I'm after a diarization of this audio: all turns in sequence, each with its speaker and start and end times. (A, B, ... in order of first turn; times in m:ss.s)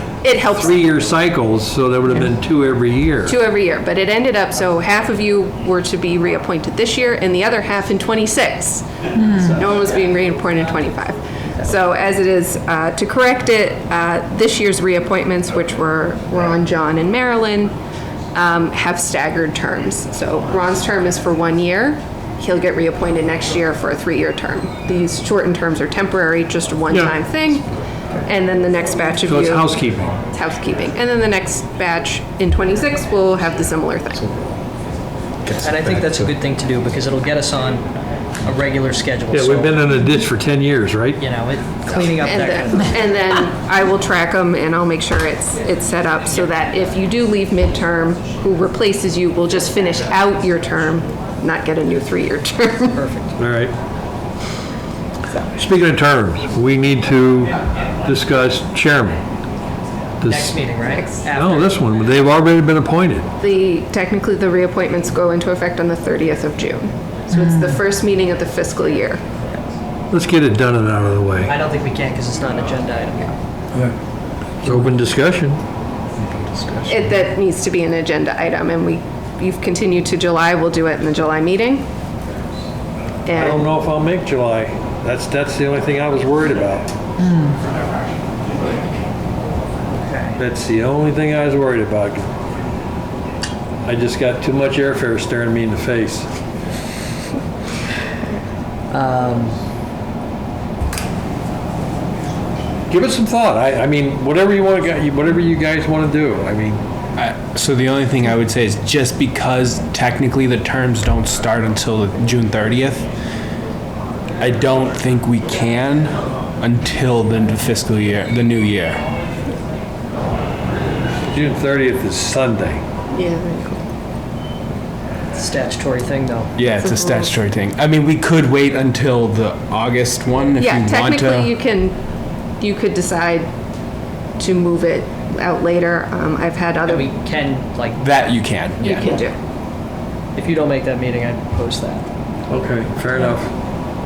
0:00.2-0:00.7 A
0:00.5-0:03.4 B
0:03.3-0:17.7 A
0:18.3-0:27.7 A
0:26.9-0:27.2 B
0:28.2-0:29.8 A
0:29.2-0:30.2 B
0:30.3-0:34.3 A
0:35.6-0:37.9 C
0:38.4-0:39.9 C
0:39.3-0:41.2 B
0:41.2-0:42.9 C
0:41.9-0:53.0 A
0:52.9-0:53.3 C
0:53.4-0:53.8 B
0:55.6-0:59.2 B
1:00.2-1:00.6 B
1:00.2-1:01.8 C
1:00.8-1:01.2 A
1:01.4-1:03.3 B
1:03.4-1:09.2 A
1:10.1-1:11.6 B
1:11.5-1:13.3 C
1:14.6-1:14.9 C
1:14.6-1:15.6 B
1:16.2-1:17.2 C
1:16.9-1:21.9 A
1:23.3-1:23.7 A
1:23.3-1:26.9 B
1:30.0-1:30.4 C
1:30.4-1:32.3 B
1:33.8-1:36.3 B
1:38.9-1:39.6 C
1:42.9-1:46.8 B
1:47.2-1:53.1 D
1:54.4-1:59.0 D
2:01.3-2:02.8 B
2:03.1-2:03.8 A
2:05.3-2:06.5 C
2:06.6-2:11.5 D
2:06.8-2:07.3 A
2:10.6-2:12.0 A
2:12.6-2:13.5 A
2:14.4-2:17.1 A
2:16.9-2:18.0 C
2:18.0-2:19.2 D
2:18.8-2:19.4 A
2:20.4-2:22.0 C
2:22.5-2:23.5 B